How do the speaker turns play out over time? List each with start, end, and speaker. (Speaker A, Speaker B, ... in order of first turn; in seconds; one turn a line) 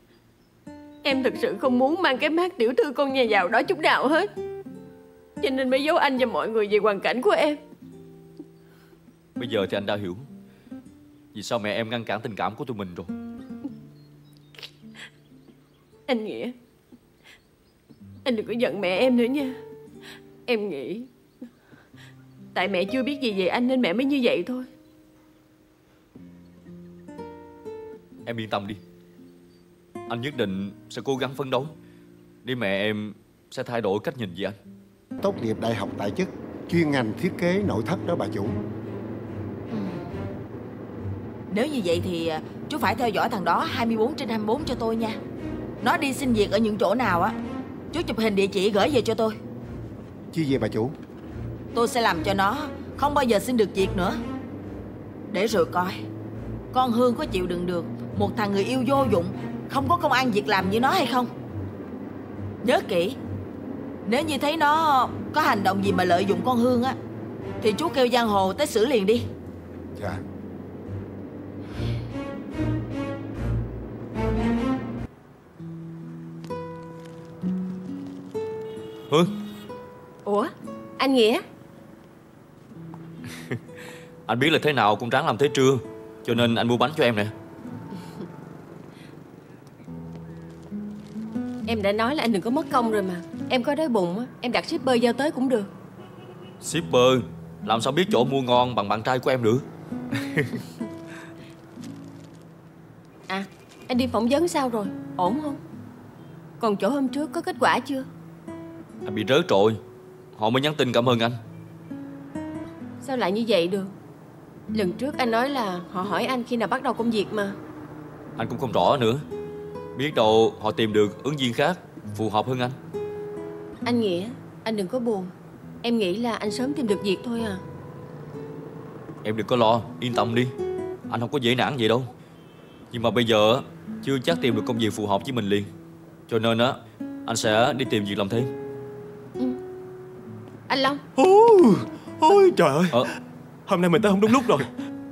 Speaker A: 1.0-4.3
Speaker A: 5.4-7.6
Speaker B: 9.4-10.3
Speaker B: 11.3-13.1
Speaker A: 16.1-16.5
Speaker A: 18.2-19.6
Speaker A: 20.4-21.1
Speaker A: 22.5-24.7
Speaker B: 28.2-28.8
Speaker B: 30.1-31.7
Speaker B: 32.4-34.5
Speaker C: 35.2-38.5
Speaker D: 41.5-45.2
Speaker D: 45.8-47.4
Speaker D: 47.9-49.4
Speaker C: 50.3-50.9
Speaker D: 51.7-54.2
Speaker D: 55.3-56.0
Speaker D: 56.7-61.3
Speaker D: 62.6-63.2
Speaker D: 64.0-67.0
Speaker D: 67.6-69.2
Speaker A: 80.2-81.4
Speaker B: 84.3-87.3
Speaker A: 91.7-95.7
Speaker B: 96.6-100.5
Speaker A: 103.3-105.6
Speaker A: 106.6-108.1
Speaker B: 109.0-109.8
Speaker B: 110.3-111.4
Speaker A: 113.0-113.9
Speaker A: 114.7-117.6
Speaker B: 118.4-119.2
Speaker B: 119.9-122.8
Speaker A: 123.8-127.6
Speaker B: 129.2-130.5
Speaker B: 131.1-132.1
Speaker B: 132.9-135.7
Speaker B: 136.3-138.5
Speaker A: 140.7-141.0
Speaker E: 141.2-143.1
Speaker E: 143.7-144.7